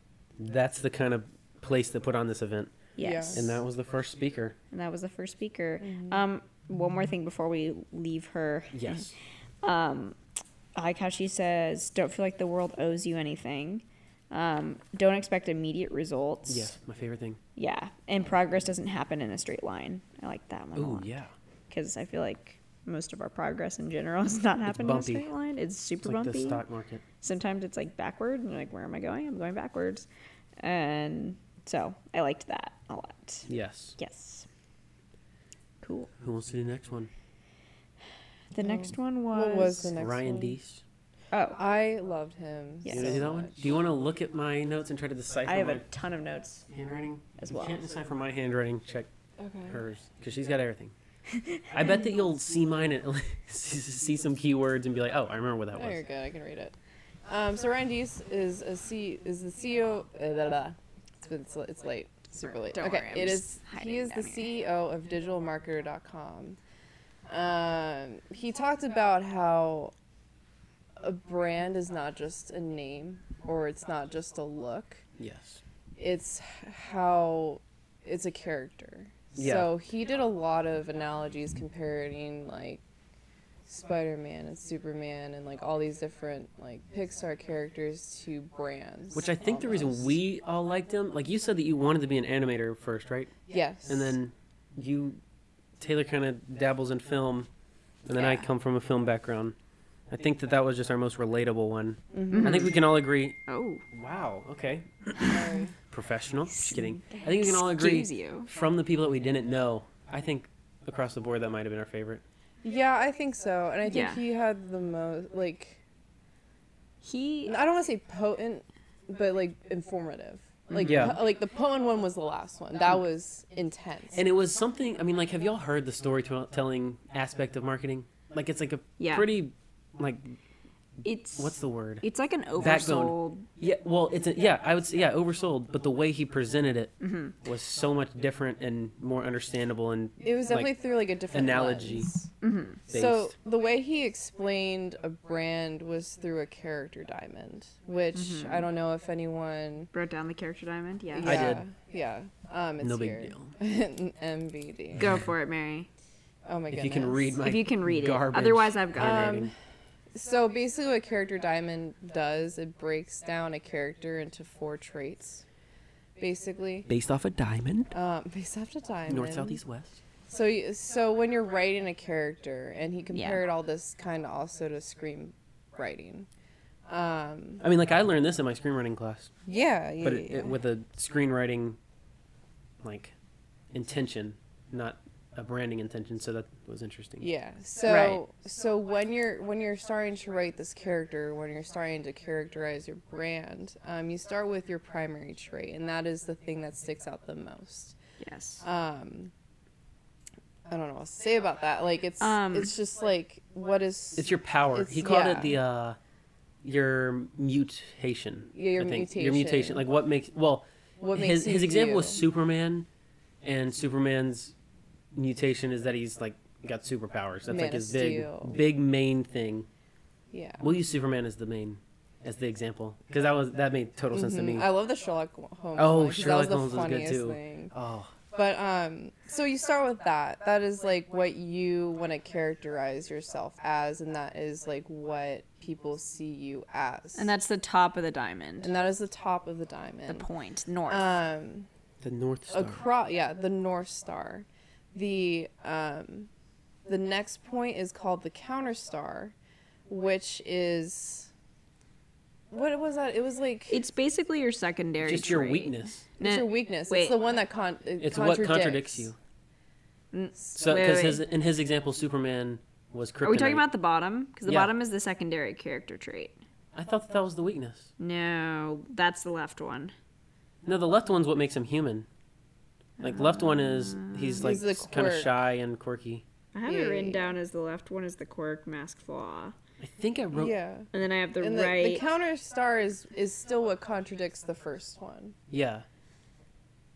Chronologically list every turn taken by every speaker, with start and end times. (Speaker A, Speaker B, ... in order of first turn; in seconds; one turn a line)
Speaker A: 0.4-2.8
Speaker B: 3.0-3.5
Speaker C: 3.0-3.6
Speaker A: 3.3-4.6
Speaker B: 4.7-9.1
Speaker C: 5.8-6.3
Speaker A: 8.7-9.2
Speaker B: 9.6-10.2
Speaker B: 10.8-16.7
Speaker A: 16.5-17.4
Speaker B: 17.6-21.2
Speaker A: 20.8-21.3
Speaker B: 21.7-26.6
Speaker A: 24.7-25.3
Speaker A: 26.0-27.0
Speaker B: 27.2-30.1
Speaker B: 30.6-34.5
Speaker A: 33.5-34.0
Speaker B: 35.8-36.1
Speaker A: 36.2-37.1
Speaker B: 38.5-39.9
Speaker C: 38.6-40.6
Speaker A: 40.0-40.8
Speaker B: 41.3-41.6
Speaker C: 41.6-43.6
Speaker B: 42.9-43.3
Speaker A: 42.9-45.9
Speaker B: 45.5-46.7
Speaker A: 46.7-49.1
Speaker B: 47.4-47.9
Speaker C: 49.4-49.8
Speaker A: 49.7-50.9
Speaker B: 51.3-51.7
Speaker A: 51.7-56.0
Speaker C: 55.7-66.6
Speaker B: 62.7-64.5
Speaker C: 67.3-69.9
Speaker C: 71.0-75.0
Speaker A: 75.2-75.6
Speaker C: 76.0-82.8
Speaker A: 79.4-79.7
Speaker C: 83.7-90.2
Speaker A: 89.1-93.4
Speaker C: 93.5-94.2
Speaker A: 93.9-95.2
Speaker A: 95.8-97.5
Speaker A: 98.1-99.6
Speaker B: 98.1-98.5
Speaker A: 100.1-103.4
Speaker C: 102.1-102.7
Speaker B: 102.3-102.8
Speaker B: 103.5-103.8
Speaker A: 103.9-112.2
Speaker C: 105.2-105.7
Speaker B: 106.5-108.5
Speaker C: 112.6-115.8
Speaker B: 113.9-114.2
Speaker B: 117.0-117.6
Speaker C: 117.5-124.2
Speaker B: 120.7-121.0
Speaker A: 120.8-121.2
Speaker A: 124.1-130.4
Speaker B: 129.0-129.3
Speaker B: 131.0-133.5
Speaker A: 131.3-132.1
Speaker A: 132.6-140.7
Speaker B: 137.0-137.4
Speaker C: 140.2-142.3
Speaker A: 141.3-142.1
Speaker B: 142.4-142.8
Speaker A: 142.9-143.3
Speaker C: 142.9-149.9
Speaker B: 148.1-148.7
Speaker B: 149.9-151.5
Speaker C: 151.1-155.2
Speaker A: 151.2-151.6
Speaker A: 152.8-153.6
Speaker B: 155.0-155.9
Speaker C: 156.5-157.4
Speaker A: 156.7-159.5
Speaker B: 157.4-159.4
Speaker C: 158.9-159.5
Speaker C: 160.1-165.4
Speaker C: 166.2-166.9
Speaker A: 166.9-167.9
Speaker C: 167.9-169.6
Speaker A: 169.1-170.0
Speaker C: 170.3-176.3
Speaker B: 173.1-173.4
Speaker C: 176.9-177.6
Speaker A: 177.6-179.3
Speaker C: 179.5-180.6
Speaker A: 180.0-181.8
Speaker A: 182.8-183.2
Speaker A: 183.7-187.3
Speaker C: 187.2-198.0
Speaker B: 187.9-188.2
Speaker B: 198.2-198.6
Speaker C: 198.6-199.3
Speaker C: 200.7-205.6
Speaker B: 202.2-202.7
Speaker A: 204.2-206.0
Speaker A: 206.6-212.9
Speaker C: 208.5-209.8
Speaker C: 211.0-212.2
Speaker A: 213.4-214.6
Speaker A: 215.2-219.7
Speaker C: 217.5-218.6
Speaker C: 220.3-220.7
Speaker A: 220.6-224.7
Speaker C: 224.1-227.7
Speaker A: 225.8-228.1
Speaker C: 228.3-237.3
Speaker B: 237.2-238.7
Speaker C: 238.6-240.3
Speaker B: 240.1-241.2
Speaker C: 240.9-241.7
Speaker A: 242.0-242.8
Speaker C: 242.5-246.3
Speaker C: 246.9-249.3
Speaker C: 249.9-251.3
Speaker C: 252.5-253.8
Speaker B: 253.7-257.2
Speaker A: 255.0-256.1
Speaker C: 256.2-259.1
Speaker A: 258.0-259.2
Speaker B: 260.1-261.2
Speaker A: 260.6-263.6
Speaker B: 263.2-266.4
Speaker A: 264.5-264.7
Speaker A: 266.7-267.9
Speaker B: 268.0-269.9
Speaker A: 270.6-272.1
Speaker B: 273.0-274.6
Speaker A: 273.0-276.3
Speaker C: 274.4-275.3
Speaker B: 276.5-279.6
Speaker C: 276.7-277.4
Speaker A: 279.8-280.5
Speaker C: 280.3-285.4
Speaker B: 280.9-282.0
Speaker A: 285.5-285.9